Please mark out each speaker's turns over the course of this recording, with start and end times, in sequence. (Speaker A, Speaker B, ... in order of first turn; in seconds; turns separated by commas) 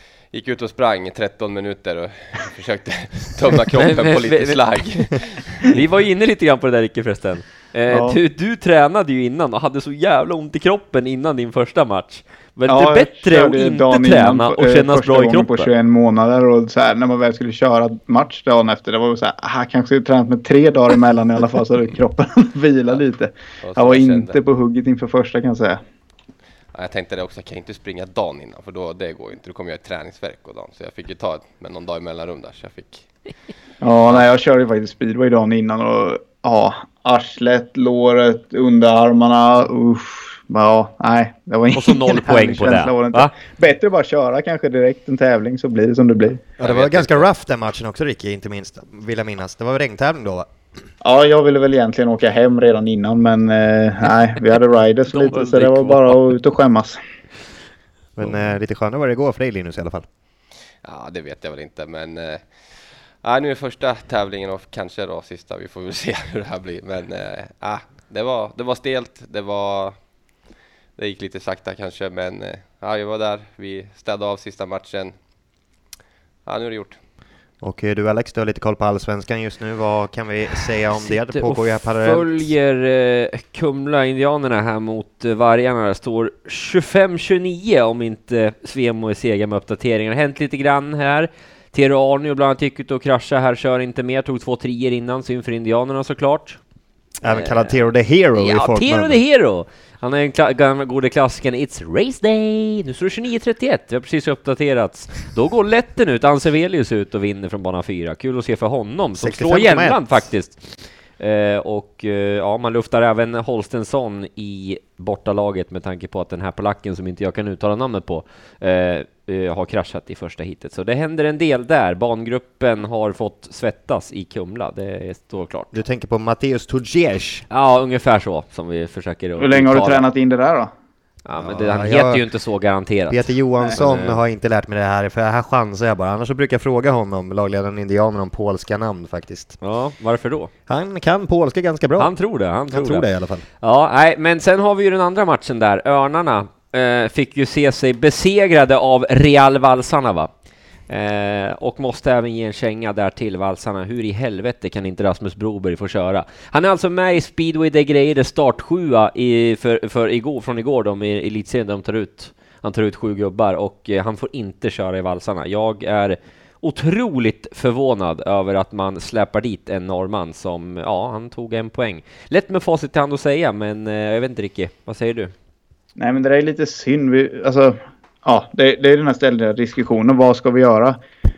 Speaker A: 0.3-5.7, Speaker B: 3.8-4.8, Speaker B: 5.7-15.7, Speaker C: 7.9-8.2, Speaker C: 12.7-25.8, Speaker A: 23.6-24.4, Speaker A: 26.7-33.0, Speaker C: 33.8-46.4, Speaker B: 41.7-43.3, Speaker D: 46.6-50.5, Speaker A: 46.6-47.2, Speaker C: 51.0-57.0, Speaker B: 55.1-56.3, Speaker D: 58.1-60.0, Speaker A: 60.8-62.5, Speaker A: 63.2-70.0, Speaker A: 71.0-75.1, Speaker A: 76.5-77.0, Speaker D: 77.6-82.5, Speaker B: 81.0-96.6, Speaker D: 97.2-99.2, Speaker B: 97.3-97.8, Speaker B: 98.3-125.7, Speaker D: 109.2-110.2, Speaker D: 125.7-127.5, Speaker B: 127.5-130.1, Speaker C: 129.4-130.7, Speaker B: 131.2-134.2, Speaker D: 131.4-132.2, Speaker D: 133.1-139.6, Speaker B: 139.6-140.5, Speaker D: 140.7-142.1, Speaker B: 142.0-143.1, Speaker D: 142.7-143.4, Speaker B: 143.6-150.3, Speaker B: 150.9-175.3, Speaker C: 176.0-181.0